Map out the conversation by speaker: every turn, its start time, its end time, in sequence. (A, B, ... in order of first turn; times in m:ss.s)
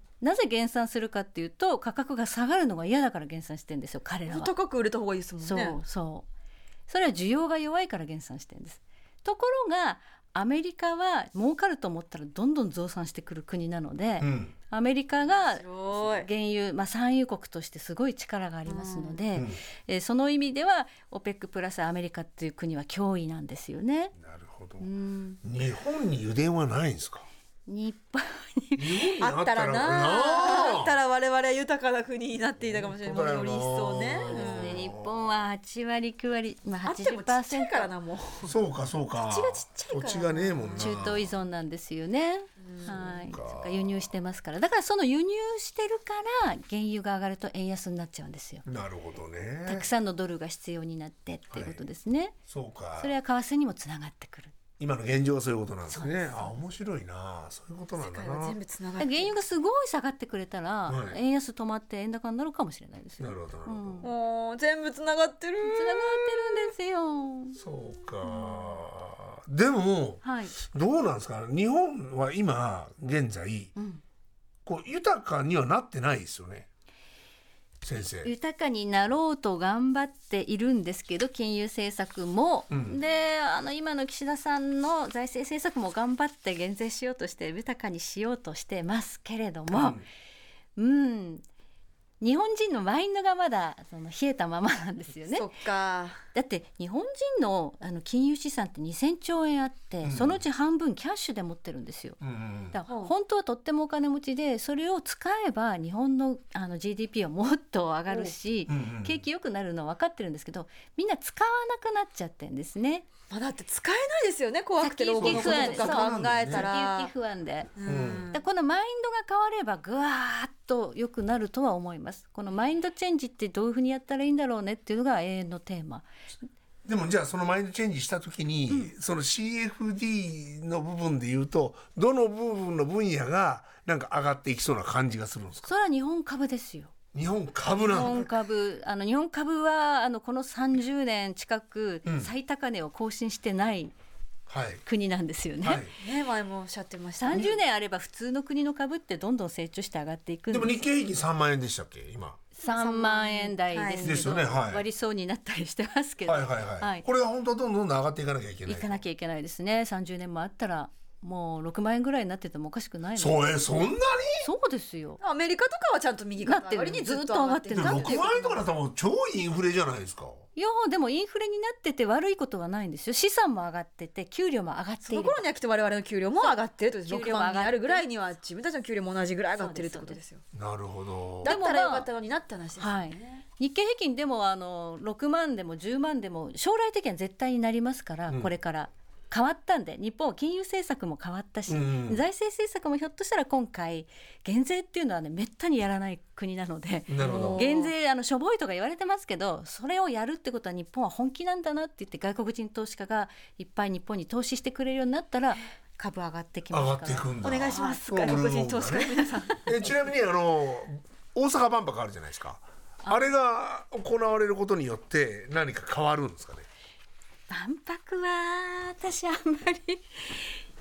0:00.2-0:04.5 A
0:04.3-0:05.8 B
0:05.4-0:06.2 A
0:06.9-0:24.2 A
0:14.2-0:14.5 C
0:15.2-0:16.3 B
0:18.7-0:19.2 B
0:19.3-0:19.6 C
0:24.2-0:24.9 C
0:24.8-0:25.4 A
0:25.4-0:27.2 C
0:27.7-0:29.1 A
0:28.8-0:30.9 C
0:29.2-0:34.8 B
0:32.6-0:35.2 C
0:34.2-0:37.9 A
0:36.8-0:38.6 B
0:38.4-0:41.2 C
0:39.2-0:41.0 B
0:40.8-0:48.6 A
0:42.6-0:43.1 B
0:43.0-0:44.1 C
0:48.6-0:49.9 C
0:49.6-0:52.4 A
0:51.5-0:51.8 C
0:52.5-0:53.1 C
0:53.0-0:54.5 A
0:54.8-0:58.6 C
0:55.9-0:56.6 A
0:58.0-0:59.3 B
0:59.0-1:04.1 A
1:00.9-1:01.2 C
1:03.2-1:04.0 C
1:04.0-1:06.5 B
1:05.6-1:07.6 A
1:07.6-1:13.7 C
1:08.3-1:08.7 B
1:10.2-1:10.5 A
1:14.6-1:16.7 C
1:17.8-1:18.3 C
1:18.2-1:30.0 A
1:22.7-1:23.0 C
1:29.7-1:30.0 C
1:30.8-1:31.4 A
1:32.2-1:35.5 A
1:35.3-1:36.2 B
1:36.3-1:42.2 A
1:40.0-1:40.4 C
1:42.2-1:42.8 C
1:42.7-1:53.0 A
1:42.9-1:43.1 B
1:48.7-1:49.2 C
1:53.3-1:57.1 B
1:54.8-1:57.7 A
1:55.2-1:56.7 C
1:57.8-1:58.4 B
1:57.8-1:58.3 C
1:58.3-2:06.1 A
2:06.8-2:15.7 C
2:15.6-2:16.9 A
2:17.1-2:18.3 C
2:17.8-2:23.9 A
2:22.0-2:22.3 C
2:24.5-2:24.8 C
2:24.8-2:25.8 A
2:25.6-2:25.9 C
2:25.9-2:27.6 B
2:27.2-2:30.8 A
2:30.5-2:32.4 C
2:32.6-2:37.0 A
2:32.6-2:34.4 B
2:34.0-2:34.8 C
2:36.2-2:39.0 C
2:38.6-2:43.6 A
2:43.2-2:44.5 C
2:44.4-2:45.2 A
2:45.2-2:48.6 B
2:46.4-2:48.2 A
2:47.7-2:50.4 C
2:50.5-2:55.4 A
2:55.1-3:00.4 B
2:56.4-2:58.1 A
2:59.6-3:00.2 A
3:00.5-3:01.5 C
3:01.4-3:03.4 B
3:01.4-3:02.1 A
3:02.8-3:28.5 A
3:11.7-3:12.2 C
3:17.1-3:17.7 C
3:17.2-3:17.9 B
3:26.7-3:36.6 C
3:27.4-3:29.7 B
3:37.5-3:40.6 A